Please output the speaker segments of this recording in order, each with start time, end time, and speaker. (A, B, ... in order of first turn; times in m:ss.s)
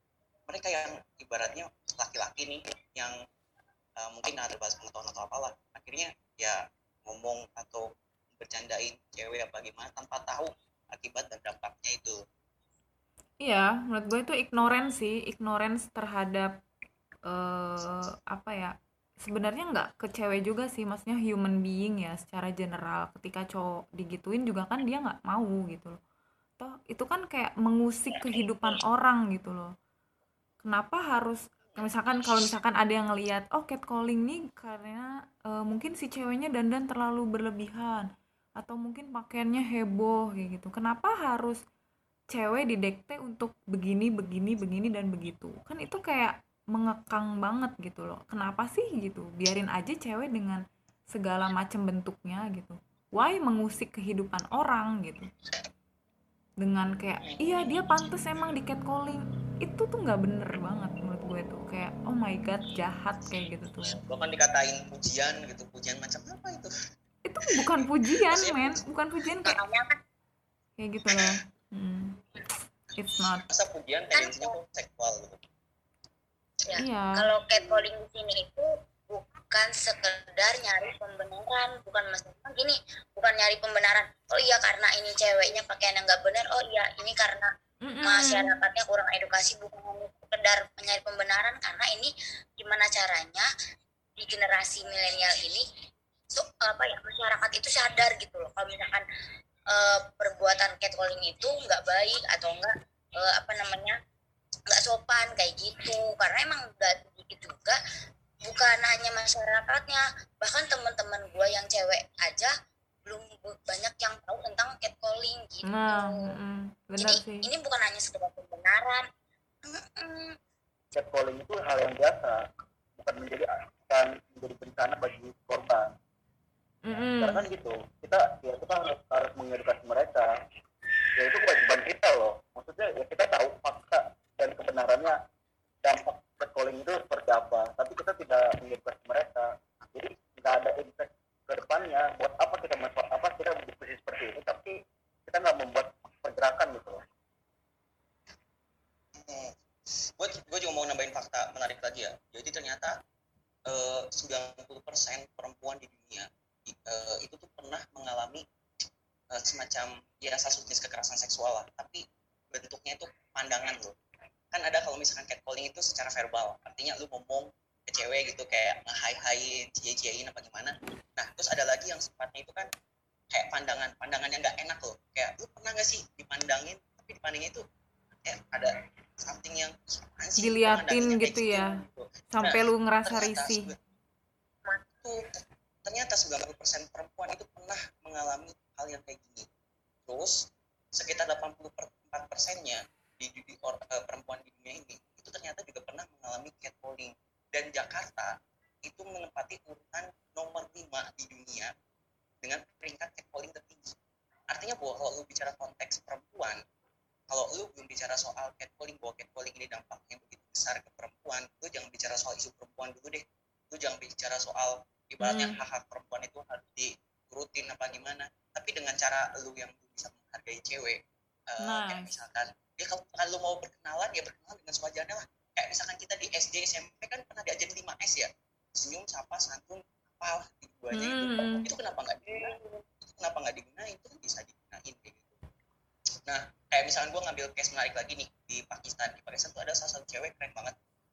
0:00.5-0:03.1 A
0:04.0-0:12.2 A
0:13.4-0:16.6 B
0:17.3-0:26.0 B
0:26.6-0:29.7 B
0:30.6-0:41.6 B
0:42.3-0:55.3 B
0:56.6-1:03.9 B
0:57.2-0:57.7 A
1:03.9-1:06.7 A
1:07.2-1:09.6 B
1:07.7-1:08.8 A
1:09.4-1:10.0 C
1:10.8-1:12.2 B
1:13.0-1:13.4 B
1:13.5-1:15.4 A
1:14.1-1:14.5 C
1:16.7-1:27.5 C
1:16.7-1:17.3 B
1:27.8-1:28.6 B
1:28.0-1:33.5 C
1:34.2-1:35.6 C
1:36.3-1:39.0 C
1:39.7-1:44.0 C
1:44.7-1:47.8 C
1:48.4-1:52.5 C
1:53.0-1:56.1 C
1:55.7-1:57.5 B
1:57.0-1:59.0 C
1:59.6-2:00.4 C
2:00.9-2:02.4 D
2:03.0-2:05.9 D
2:06.8-2:07.5 B
2:07.2-2:10.3 D
2:11.2-2:15.2 D
2:15.8-2:24.7 D
2:25.3-2:27.0 D
2:29.1-2:33.0 A
2:33.7-2:38.4 A
2:39.3-2:43.9 A
2:44.5-2:52.7 A
2:53.3-2:57.6 A
2:58.2-3:03.8 A
3:00.4-3:01.7 B
3:02.3-3:03.7 B
3:05.0-3:09.5 A
3:10.1-3:21.7 A
3:22.4-3:24.0 A
3:24.5-3:26.6 A
3:27.3-3:52.6 A
3:35.2-3:35.6 B
3:41.6-3:42.1 B
3:50.9-3:51.7 B
3:53.2-3:55.4 A
3:56.3-4:00.7 A